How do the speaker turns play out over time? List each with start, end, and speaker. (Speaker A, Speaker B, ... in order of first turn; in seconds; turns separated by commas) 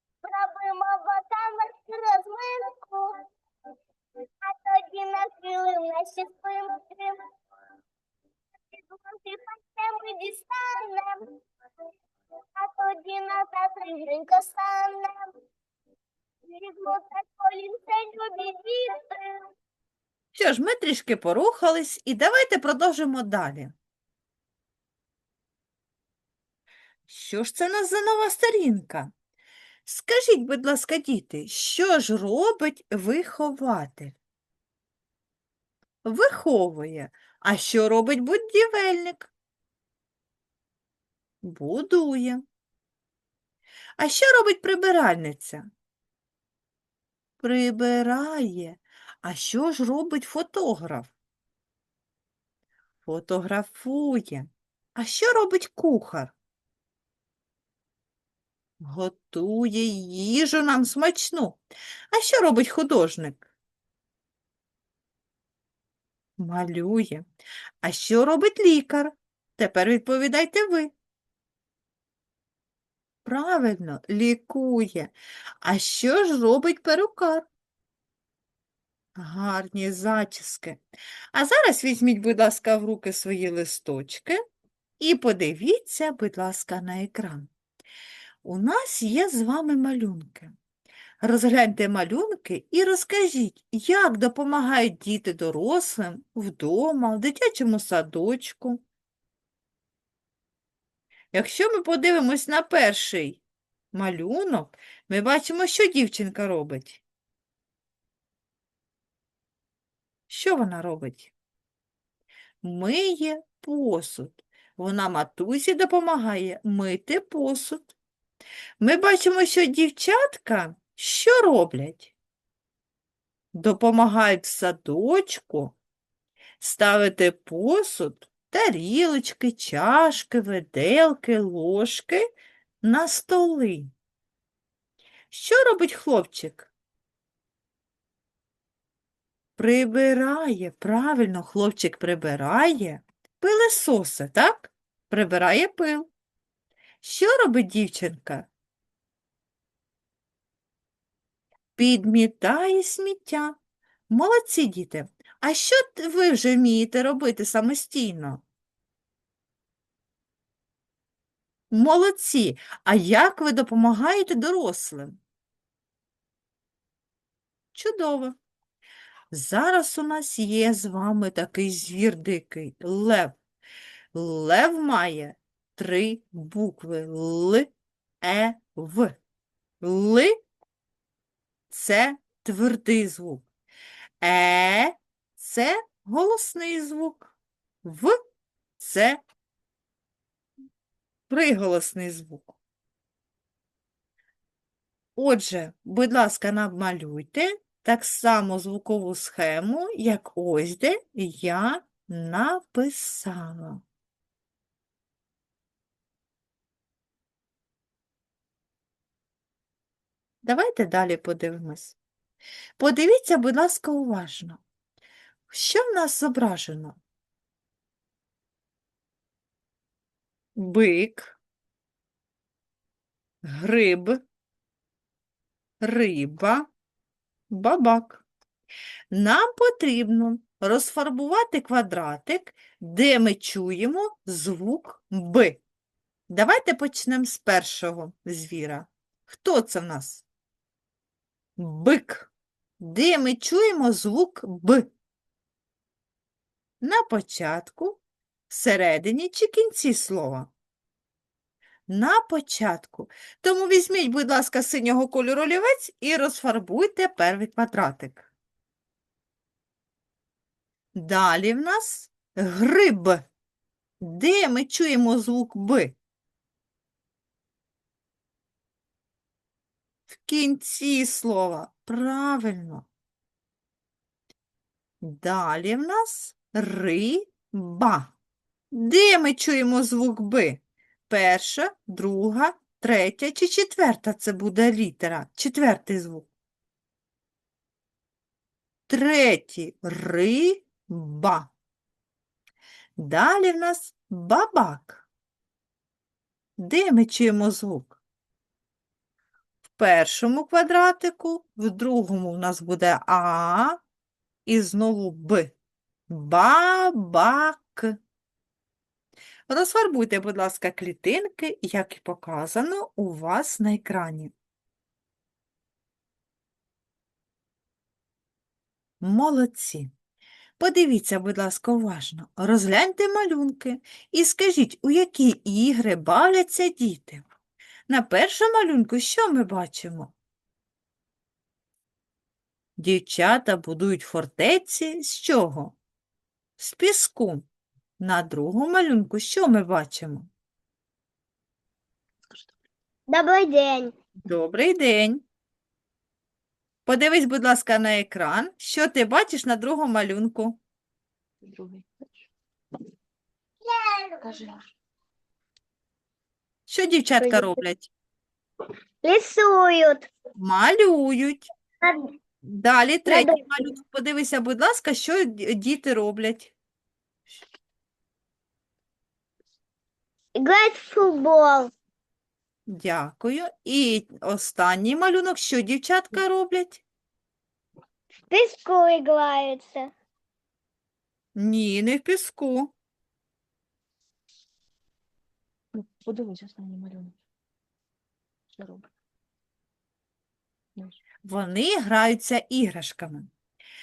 Speaker A: 0.2-3.1, Speaker A: 4.2-7.2, Speaker A: 8.7-11.2, Speaker A: 12.6-15.3, Speaker A: 16.5-19.5, Speaker B: 20.3-23.7, Speaker B: 27.1-29.1, Speaker B: 29.9-34.2, Speaker B: 36.0-39.3, Speaker B: 41.4-42.4, Speaker B: 44.0-45.7, Speaker B: 47.4-51.1, Speaker B: 53.0-56.3, Speaker B: 58.8-63.5, Speaker B: 66.4-67.2, Speaker B: 67.8-70.9, Speaker B: 73.2-77.5, Speaker B: 79.2-80.8, Speaker B: 81.3-84.4, Speaker B: 85.0-87.5, Speaker B: 88.4-90.5, Speaker B: 91.2-98.8, Speaker B: 101.3-103.4, Speaker B: 103.9-107.0, Speaker B: 110.3-111.3, Speaker B: 112.6-117.9, Speaker B: 118.8-122.1, Speaker B: 123.5-125.8, Speaker B: 126.6-132.2, Speaker B: 132.8-133.9, Speaker B: 135.3-136.7, Speaker B: 139.6-146.1, Speaker B: 147.0-148.5, Speaker B: 151.8-153.6, Speaker B: 154.1-158.4, Speaker B: 161.7-165.2, Speaker B: 167.7-168.4, Speaker B: 169.3-173.4, Speaker B: 174.1-177.7, Speaker B: 178.2-179.2, Speaker B: 179.8-180.4, Speaker B: 181.7-183.5, Speaker B: 184.2-187.3, Speaker B: 187.8-188.2, Speaker B: 188.8-189.2, Speaker B: 191.3-192.6, Speaker B: 195.2-203.8, Speaker B: 210.4-212.0, Speaker B: 212.8-214.6, Speaker B: 215.5-217.0, Speaker B: 220.6-221.3, Speaker B: 223.4-224.2, Speaker B: 225.8-226.7, Speaker B: 227.5-228.2, Speaker B: 229.1-235.6, Speaker B: 236.3-240.2, Speaker B: 241.6-244.9, Speaker B: 246.8-250.5, Speaker B: 251.9-258.3, Speaker B: 260.9-263.2, Speaker B: 264.0-266.0, Speaker B: 270.1-272.9, Speaker B: 275.0-278.1, Speaker B: 278.7-286.3, Speaker B: 288.9-291.5, Speaker B: 293.0-295.1, Speaker B: 296.6-298.0, Speaker B: 299.7-303.8, Speaker B: 304.4-305.5, Speaker B: 306.1-308.0, Speaker B: 309.5-314.3, Speaker B: 319.0-319.9, Speaker B: 320.6-327.2, Speaker B: 327.9-330.1, Speaker B: 332.8-335.8, Speaker B: 336.6-337.4, Speaker B: 338.0-340.3, Speaker A: 343.1-343.9, Speaker B: 344.2-345.2, Speaker B: 346.9-350.6, Speaker C: 351.4-352.2, Speaker A: 353.7-354.3, Speaker C: 354.2-354.7, Speaker B: 356.7-357.9, Speaker A: 357.2-357.6, Speaker A: 359.0-360.1, Speaker B: 360.4-361.4, Speaker B: 362.4-366.5, Speaker A: 363.1-363.4, Speaker A: 370.4-371.7, Speaker B: 372.7-376.8, Speaker A: 378.3-379.9, Speaker B: 381.4-382.7, Speaker C: 385.7-387.2, Speaker C: 388.5-388.9, Speaker B: 391.2-393.3